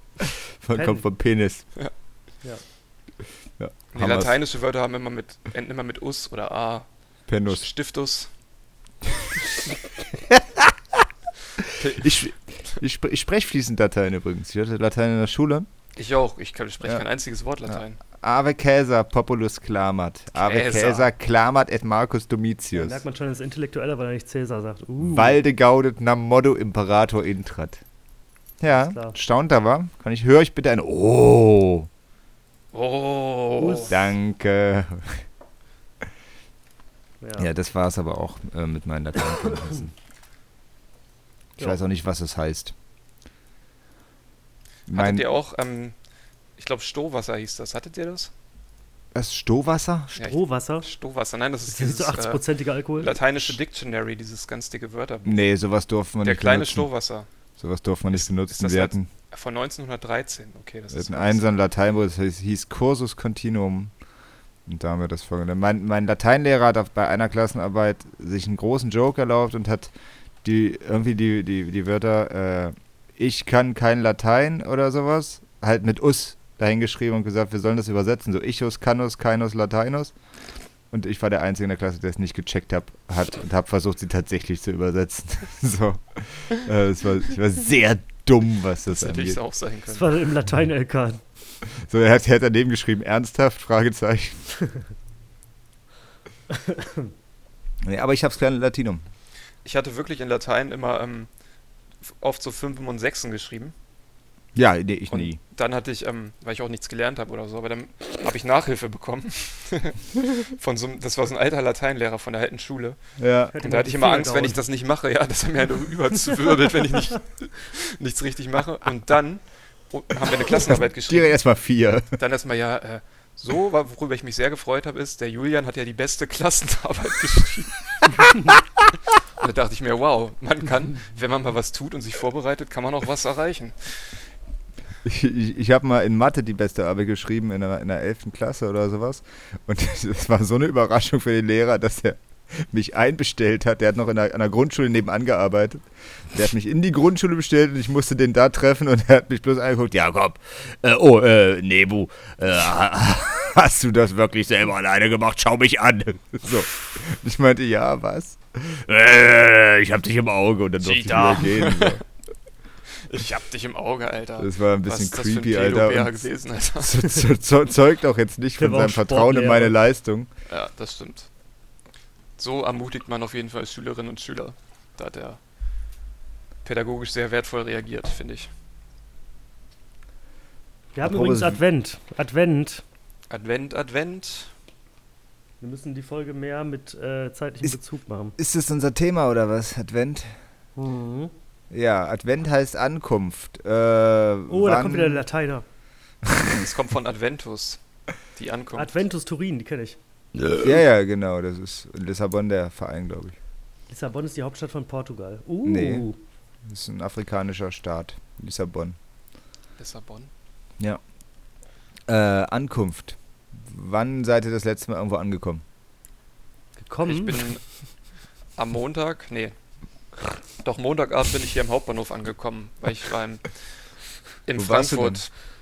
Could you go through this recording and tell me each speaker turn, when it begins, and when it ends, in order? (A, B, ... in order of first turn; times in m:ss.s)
0:00.6-0:01.6 A
0:00.7-0:01.0 B
0:03.6-0:04.3 A
0:03.9-0:06.8 C
0:07.3-0:07.7 A
0:07.4-0:08.3 C
0:10.3-0:11.0 A
0:11.6-0:15.7 A
0:11.8-0:12.8 C
0:16.0-0:18.0 C
0:17.7-0:23.0 A
0:20.4-0:21.1 C
0:22.7-0:25.4 B
0:25.0-0:27.8 A
0:28.6-0:31.9 A
0:28.7-0:29.2 B
0:32.7-0:34.0 C
0:33.6-0:33.9 B
0:33.9-0:35.2 A
0:37.2-0:37.5 B
0:37.4-0:39.9 A
0:41.6-0:42.7 A
0:44.9-0:45.3 A
0:44.9-0:45.9 C
0:46.6-0:48.3 C
0:49.1-0:50.1 A
0:50.1-0:50.9 B
0:50.2-0:52.4 C
0:51.7-0:53.5 B
0:53.0-0:55.5 C
0:55.2-0:56.9 A
0:56.2-0:57.3 C
0:57.6-0:59.1 A
0:58.2-1:01.5 C
1:00.9-1:03.9 A
1:04.6-1:09.9 A
1:10.4-1:20.1 A
1:20.9-1:29.4 A
1:28.9-1:30.2 C
1:29.9-1:31.2 B
1:31.6-1:34.4 A
1:36.5-1:37.1 B
1:37.8-1:39.0 A
1:39.6-1:41.3 C
1:42.0-1:43.7 C
1:44.5-1:45.4 A
1:45.1-1:53.0 C
1:53.2-1:53.5 A
1:53.5-1:54.6 B
1:53.6-2:01.4 C
2:00.5-2:02.1 A
2:02.2-2:08.6 C
2:09.4-2:14.2 C
2:15.0-2:42.0 A
2:40.8-2:42.0 C
2:43.0-2:47.2 C
2:44.4-2:50.3 A
2:48.6-2:49.8 B
2:50.5-2:51.3 C
2:52.4-2:55.4 C
2:56.6-2:58.5 C
3:00.9-3:02.8 B
3:01.0-3:01.6 A
3:03.3-3:04.5 C
3:05.6-3:08.4 B
3:08.4-3:10.3 A
3:10.8-3:11.3 B
3:11.7-3:15.2 A
3:14.5-3:15.6 B
3:16.4-3:17.8 C
3:18.3-3:18.9 C
3:18.7-3:20.0 B
3:20.5-3:23.4 A
3:23.9-3:26.2 B
3:25.6-3:26.1 A
3:26.6-3:29.0 A
3:29.8-3:30.3 C
3:32.1-3:35.6 A
3:36.8-3:37.5 B
3:37.0-3:37.6 C
3:38.6-3:39.5 C
3:40.6-3:43.6 C
3:44.5-3:45.3 C
3:44.5-3:45.2 A